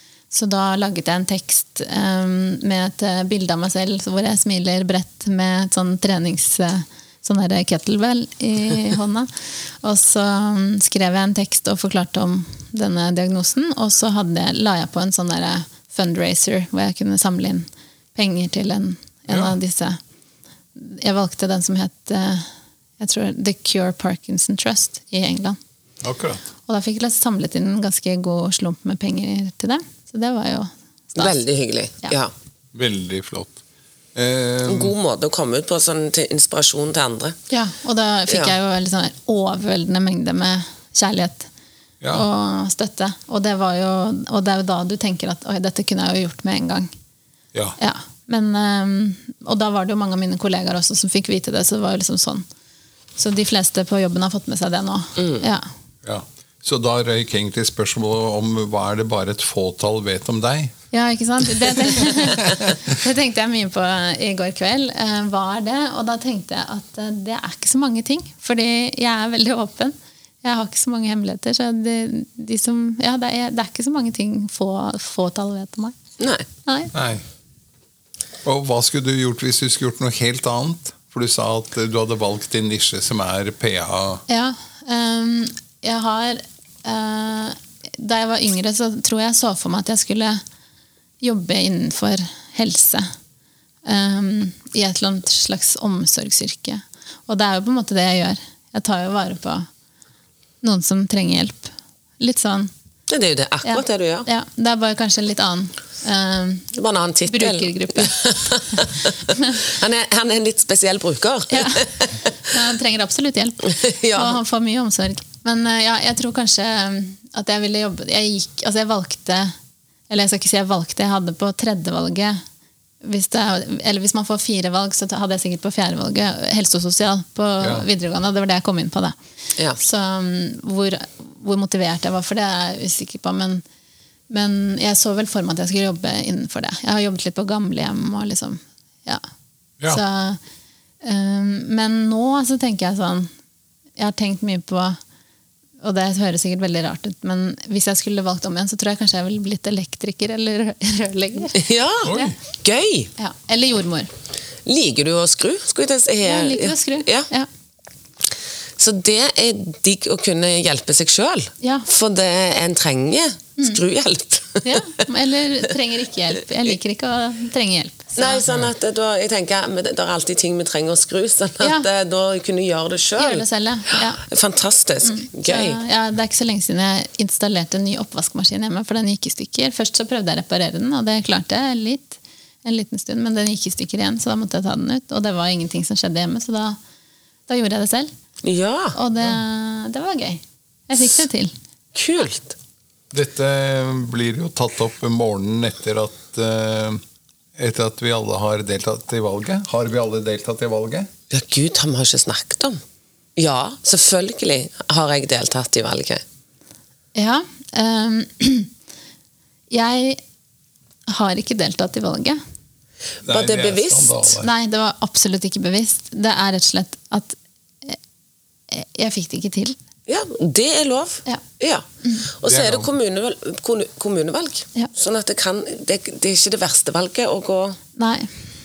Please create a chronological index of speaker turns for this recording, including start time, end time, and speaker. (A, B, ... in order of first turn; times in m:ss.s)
0:00.3-0:20.0 A
0:19.3-0:19.5 B
0:20.8-0:25.6 A
0:26.0-0:26.4 B
0:26.7-0:31.3 A
0:31.2-0:32.3 C
0:32.7-0:33.6 B
0:34.2-0:35.0 B
0:34.7-0:37.4 C
0:37.5-0:41.5 A
0:38.3-0:38.5 C
0:42.1-0:46.9 A
0:47.8-0:52.5 A
0:53.2-0:55.7 A
0:56.0-1:00.7 B
1:00.9-1:16.0 A
1:02.5-1:02.8 B
1:16.2-1:16.5 C
1:16.7-1:16.9 A
1:16.9-1:17.2 B
1:18.4-1:24.2 B
1:24.3-1:30.4 A
1:31.2-1:33.1 A
1:33.8-1:39.7 A
1:40.6-1:42.7 A
1:43.1-1:44.3 C
1:43.6-1:46.7 A
1:46.7-1:52.5 C
1:47.3-1:48.2 A
1:48.7-1:49.6 A
1:51.5-1:59.5 A
1:53.7-1:54.4 C
2:00.1-2:02.4 A
2:03.0-2:09.2 A
2:07.6-2:07.9 B
2:09.8-2:13.6 A
2:14.3-2:19.2 A
2:19.9-2:20.4 A
2:21.0-2:23.3 A
2:24.0-2:25.0 A
2:25.8-2:32.3 A
2:31.6-2:33.1 C
2:32.0-2:32.4 B
2:33.2-2:34.1 A
2:34.7-2:37.3 C
2:36.2-2:37.5 A
2:38.8-2:45.0 C
2:41.6-2:41.9 A
2:44.6-2:48.4 A
2:48.2-2:55.8 C
2:51.6-2:51.9 A
2:53.2-2:54.2 A
2:55.0-3:06.8 A
3:07.5-3:08.1 A
3:08.4-3:09.0 C
3:08.9-3:11.6 A
3:11.9-3:12.6 C
3:13.1-3:17.0 B
3:17.6-3:21.1 B
3:21.3-3:22.8 C
3:23.4-3:26.2 C
3:27.2-3:28.7 A
3:29.7-3:30.2 A
3:31.1-3:32.4 A
3:33.2-3:34.5 B
3:33.3-3:34.3 C
3:34.4-3:38.0 A
3:38.7-3:39.8 A
3:40.1-3:47.8 C
3:42.4-3:42.9 B
3:48.0-3:48.3 A